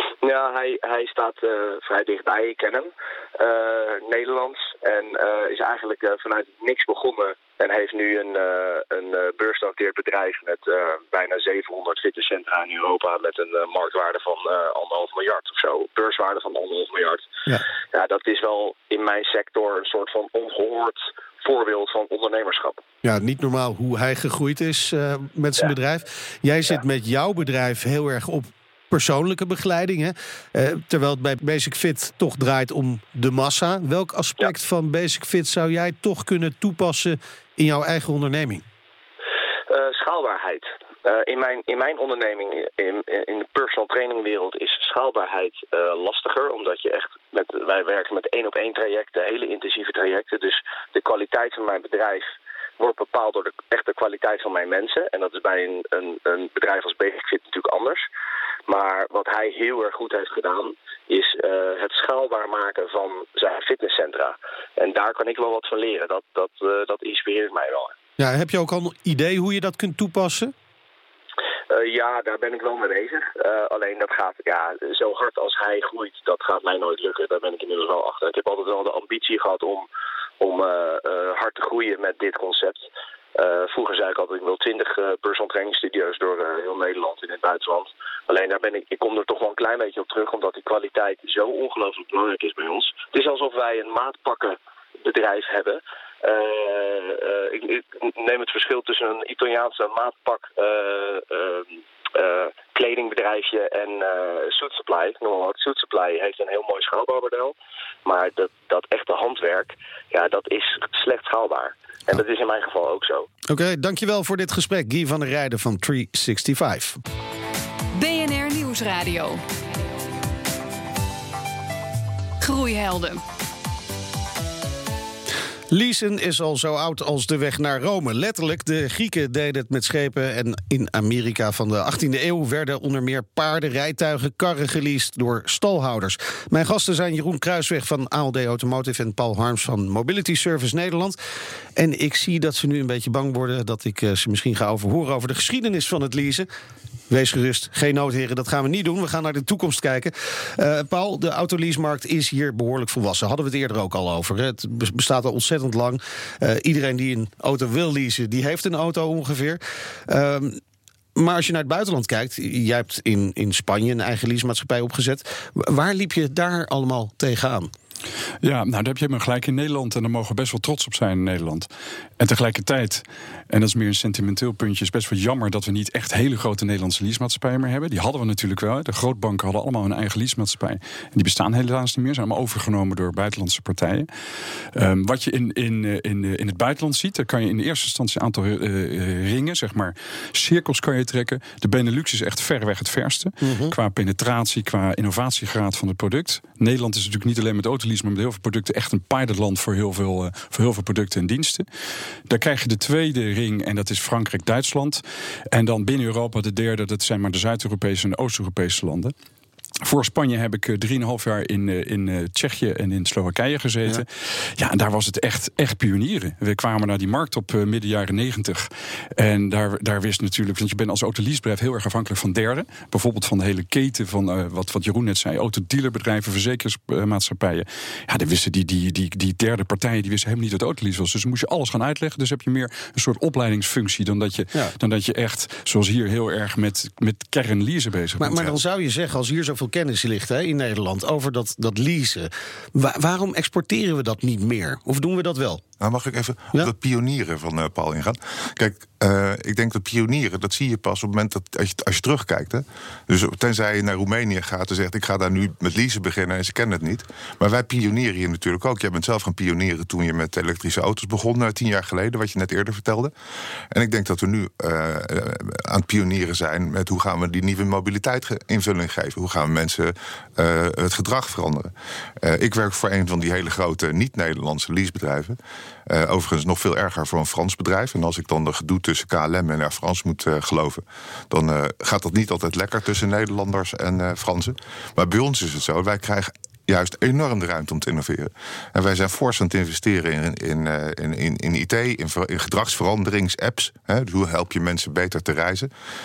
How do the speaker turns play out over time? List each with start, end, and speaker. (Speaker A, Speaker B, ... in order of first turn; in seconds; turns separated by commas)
Speaker A: 0.2-17.3, Speaker A: 17.9-22.8, Speaker B: 23.0-38.6, Speaker A: 39.7-58.0, Speaker A: 58.7-67.9, Speaker B: 68.2-70.5, Speaker A: 71.7-79.9, Speaker A: 80.4-113.3, Speaker B: 113.5-117.0, Speaker C: 117.9-119.4, Speaker C: 122.4-123.2, Speaker B: 125.7-141.2, Speaker B: 141.8-146.5, Speaker B: 147.1-160.6, Speaker B: 161.2-167.7, Speaker D: 168.4-171.7, Speaker D: 172.2-184.1, Speaker D: 184.7-201.7, Speaker B: 193.4-193.7, Speaker D: 202.3-209.1, Speaker D: 209.8-238.5, Speaker B: 238.2-245.6, Speaker E: 245.8-263.1, Speaker E: 263.7-295.7